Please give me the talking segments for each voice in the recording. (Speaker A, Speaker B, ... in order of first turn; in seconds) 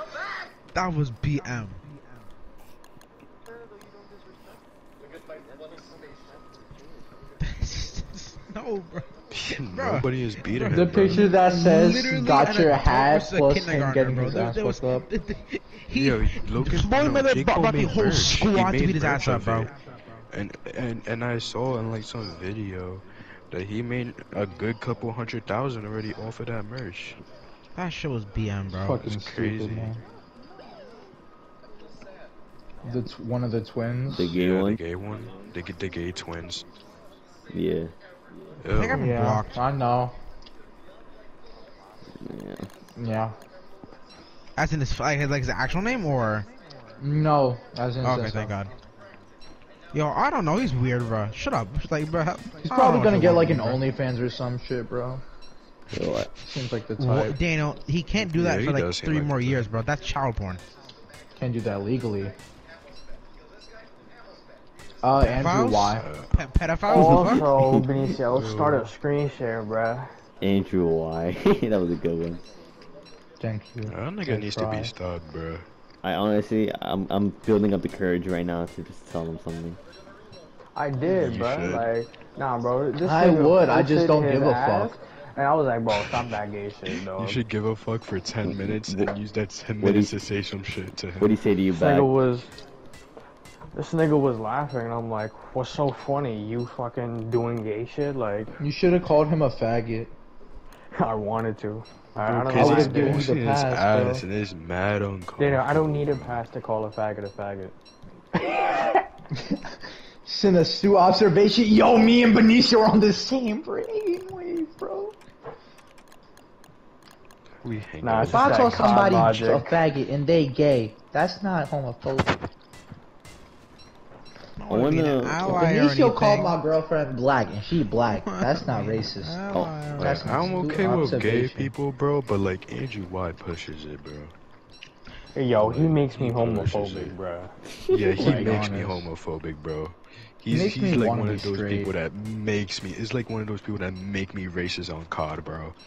Speaker A: 0.7-1.8, 7.4-9.1, 9.7-19.7, 27.8-29.0, 38.7-39.5, 44.6-46.5, 48.0-48.7, 49.9-53.8, 57.0-60.6, 65.2-67.4, 124.6-126.5, 128.1-130.4
Speaker B: 9.3-11.3, 15.9-19.7, 20.3-27.2, 29.0-29.9, 34.3-36.6, 38.6-39.2, 58.2-59.7, 65.9-66.3, 68.1-68.9, 73.8-75.7, 81.1-81.9, 87.1-91.3, 102.2-106.4, 117.6-118.9, 130.0-134.3, 135.6-137.1, 137.9-145.7
Speaker C: 10.7-15.1, 28.7-30.0, 32.8-34.3, 38.9-40.1, 43.0-43.4, 47.0-48.5, 52.6-55.2, 56.4-57.4, 61.4-62.3, 65.0-66.1, 73.4-74.9, 83.0-84.9, 98.6-100.1, 102.5-104.2, 110.2-115.2, 118.2-122.4, 125.5-131.7, 138.2-139.1, 140.5-141.9
Speaker D: 34.1-34.8, 37.5-37.9, 42.2-42.7, 55.9-56.3, 66.9-67.9, 70.4-72.4, 76.0-79.8, 88.4-89.2, 89.8-90.1, 91.2-92.1, 124.7-125.7
Speaker E: 66.9-70.1, 80.8-87.4, 91.7-92.5, 93.7-98.5, 100.9-103.3, 105.4-107.7, 108.3-109.0, 118.0-119.7, 135.3-137.5, 138.2-138.7